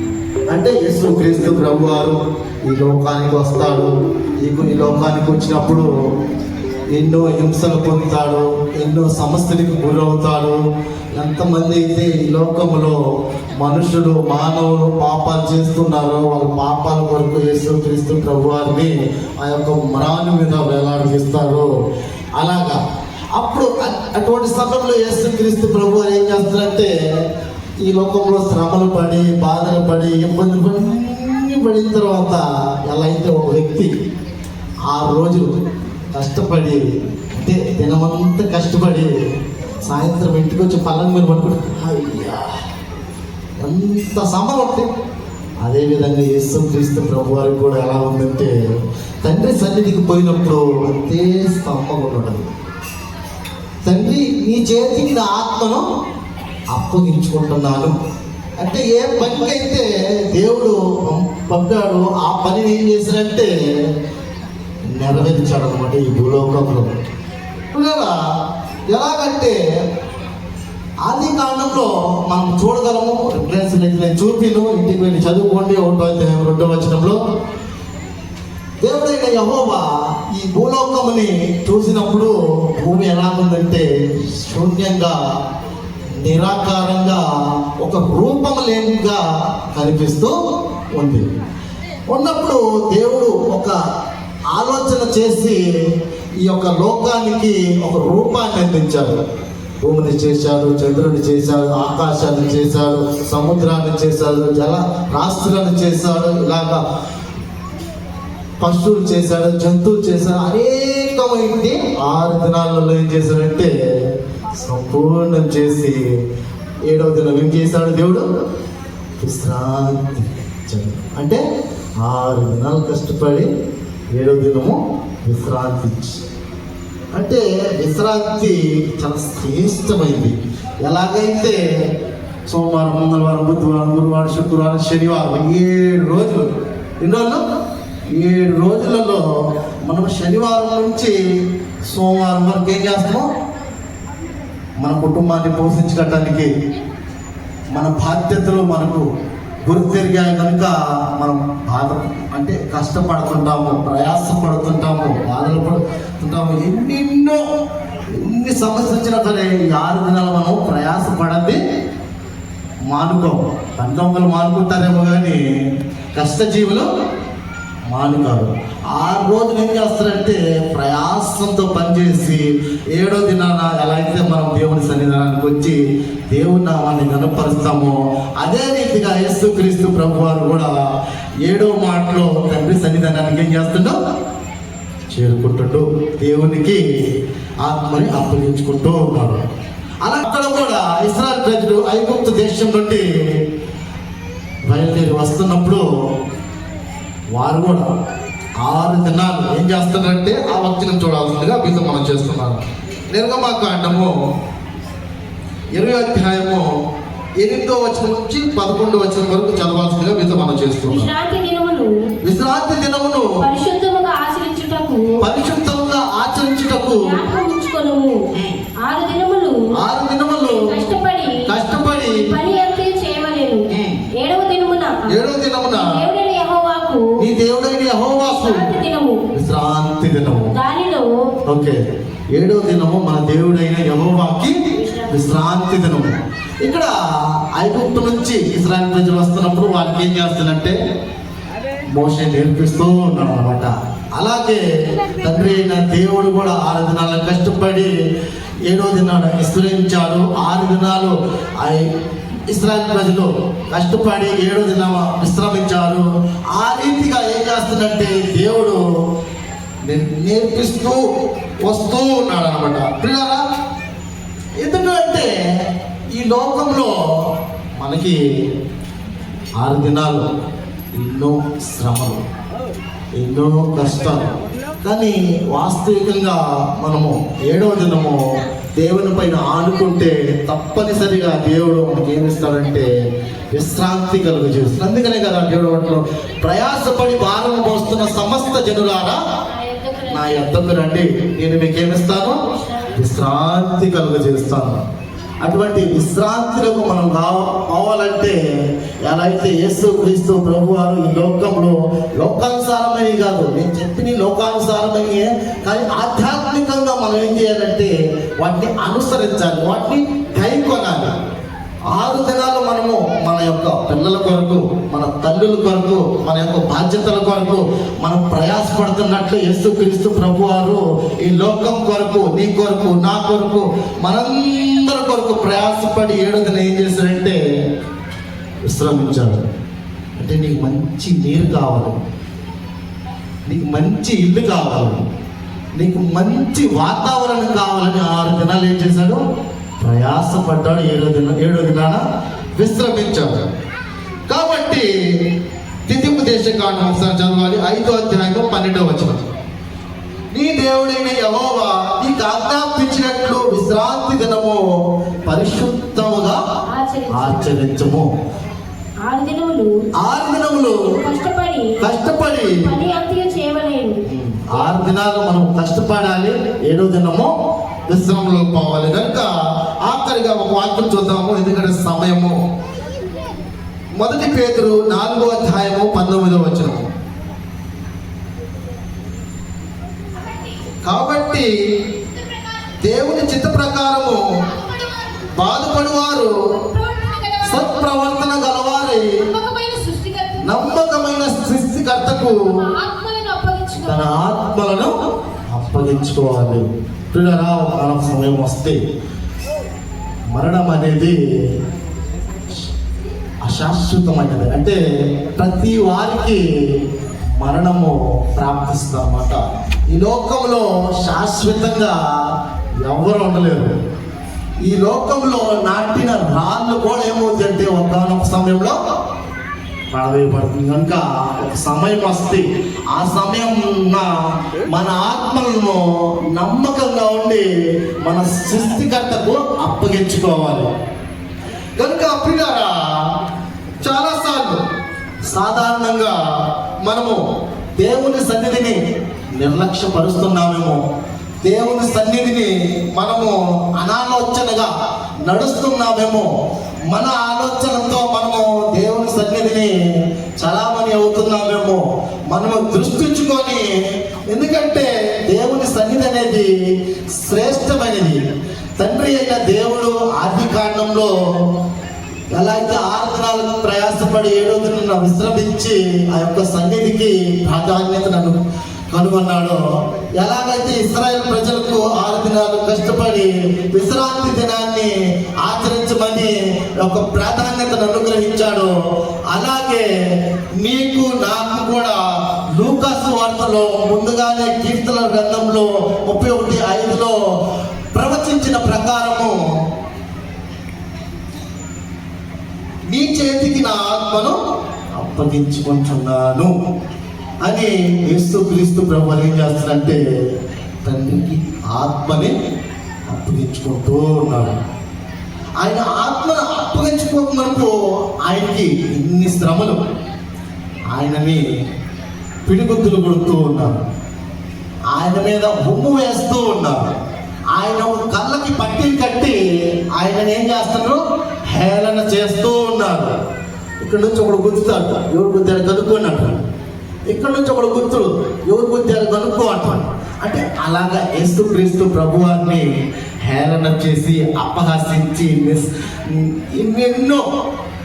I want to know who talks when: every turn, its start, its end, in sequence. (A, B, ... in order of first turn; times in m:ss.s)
0:00.5-0:05.9 A
0:06.9-0:10.6 A
0:11.2-0:13.0 A
0:13.6-0:21.7 A
0:22.4-0:22.8 A
0:23.3-0:26.9 A
0:27.8-0:33.9 A
0:34.9-0:35.6 A
0:36.1-0:39.1 A
0:39.8-0:42.6 A
0:43.6-0:44.9 A
0:45.6-0:48.5 A
0:49.2-0:52.4 A
0:53.8-0:55.8 A
0:56.7-0:57.9 A
0:58.6-1:03.5 A
1:04.9-1:06.9 A
1:07.7-1:08.2 A
1:08.9-1:09.6 A
1:11.0-1:17.2 A
1:18.8-1:25.2 A
1:26.1-1:27.2 A
1:27.8-1:30.3 A
1:30.9-1:31.2 A
1:32.1-1:33.8 A
1:34.5-1:35.6 A
1:36.4-1:39.2 A
1:39.8-1:46.8 A
1:48.6-1:53.7 A
1:54.6-1:56.0 A
1:56.9-1:58.2 A
1:59.2-2:01.4 A
2:02.0-2:03.5 A
2:04.1-2:06.2 A
2:07.1-2:11.6 A
2:12.5-2:16.4 A
2:17.0-2:17.4 A
2:18.2-2:19.2 A
2:19.8-2:21.1 A
2:21.9-2:23.2 A
2:24.8-2:26.5 A
2:27.7-2:29.0 A
2:29.6-2:37.4 A
2:38.1-2:41.6 A
2:42.9-2:45.4 A
2:46.1-2:46.9 A
2:47.9-2:55.8 A
2:56.3-3:00.7 A
3:01.4-3:04.0 A
3:05.1-3:06.8 A
3:07.6-3:09.4 A
3:10.0-3:13.1 A
3:14.7-3:15.8 A
3:17.3-3:17.9 A
3:18.6-3:24.1 A
3:25.7-3:26.6 A
3:27.4-3:31.1 A
3:30.9-3:31.9 B
3:32.2-3:33.3 A
3:33.4-3:35.2 B
3:35.2-3:37.2 A
3:36.7-3:38.2 B
3:38.3-3:38.6 A
3:38.8-3:39.6 B
3:39.8-3:40.7 A
3:40.4-3:41.4 B
3:41.4-3:42.2 A
3:42.1-3:43.6 B
3:43.7-3:44.0 A
3:44.2-3:45.2 B
3:45.0-3:45.9 A
3:45.7-3:47.1 B
3:47.2-3:48.7 A
3:48.2-3:49.2 B
3:49.3-3:50.5 A
3:50.5-3:51.0 B
3:51.4-3:51.8 A
3:52.3-3:54.5 A
3:54.8-3:55.3 B
3:55.1-3:56.9 A
3:57.5-4:00.7 A
4:01.9-4:04.6 A
4:05.2-4:07.9 A
4:08.7-4:11.9 A
4:12.5-4:18.8 A
4:19.8-4:21.0 A
4:21.6-4:23.4 A
4:24.6-4:25.3 A
4:26.1-4:26.9 A
4:27.8-4:28.2 A
4:29.6-4:30.2 A
4:31.0-4:32.2 A
4:33.2-4:38.2 A
4:38.8-4:42.9 A
4:43.5-4:49.2 A
4:49.5-4:50.4 B
4:50.1-4:52.4 A
4:52.5-4:53.0 B
4:52.9-4:54.8 A
4:55.4-4:58.4 A
4:59.0-5:11.1 A
5:11.9-5:27.4 A
5:28.7-5:29.4 A
5:30.2-5:32.0 A
5:33.4-5:35.0 A
5:35.8-5:39.2 A
5:39.8-5:42.0 A
5:42.6-5:43.5 A
5:44.3-5:44.9 A
5:45.9-5:49.3 A
5:50.3-5:54.6 A
5:55.2-5:56.4 A
5:56.7-5:57.5 B
5:57.1-5:58.1 A
5:59.0-5:59.7 B
6:00.0-6:00.8 A
6:00.8-6:01.8 B
6:01.8-6:02.6 A
6:02.4-6:04.0 B
6:04.0-6:07.3 A
6:07.9-6:09.3 A
6:09.8-6:12.3 A
6:14.0-6:16.9 A
6:20.8-6:21.5 A
6:22.8-6:24.2 A
6:25.3-6:26.3 A
6:26.8-6:27.4 B
6:27.4-6:29.2 A
6:29.4-6:30.4 B
6:30.4-6:32.4 A
6:32.8-6:34.0 B
6:33.8-6:34.9 A
6:35.5-6:38.8 A
6:40.3-6:41.2 A
6:43.4-6:44.8 A
6:45.3-6:46.4 A
6:47.4-6:49.4 A
6:49.9-6:52.0 A
6:52.8-6:53.7 A
6:54.6-6:58.8 A
6:59.9-7:04.1 A
7:04.7-7:07.4 A
7:08.0-7:10.7 A
7:11.8-7:13.1 A
7:13.8-7:14.6 A
7:15.2-7:16.2 A
7:16.8-7:17.2 A
7:17.8-7:18.8 A
7:19.4-7:20.8 A
7:21.4-7:24.7 A
7:25.2-7:26.3 A
7:26.9-7:29.7 A
7:30.4-7:33.7 A
7:34.3-7:36.5 A
7:37.2-7:38.2 A
7:38.8-7:41.1 A
7:42.3-7:48.4 A
7:48.9-7:49.6 A
7:50.2-7:54.9 A
7:55.4-7:58.7 A
7:59.3-7:59.8 A
8:00.6-8:02.0 A
8:02.5-8:07.2 A
8:07.9-8:09.4 A
8:12.9-8:14.4 A
8:15.0-8:16.5 A
8:17.4-8:20.0 A
8:20.8-8:22.3 A
8:23.1-8:24.6 A
8:25.6-8:29.8 A
8:30.9-8:31.4 A
8:32.4-8:33.8 A
8:34.9-8:36.9 A
8:37.5-8:39.4 A
8:39.9-8:43.1 A
8:43.8-8:46.4 A
8:47.1-8:52.6 A
8:53.2-8:57.2 A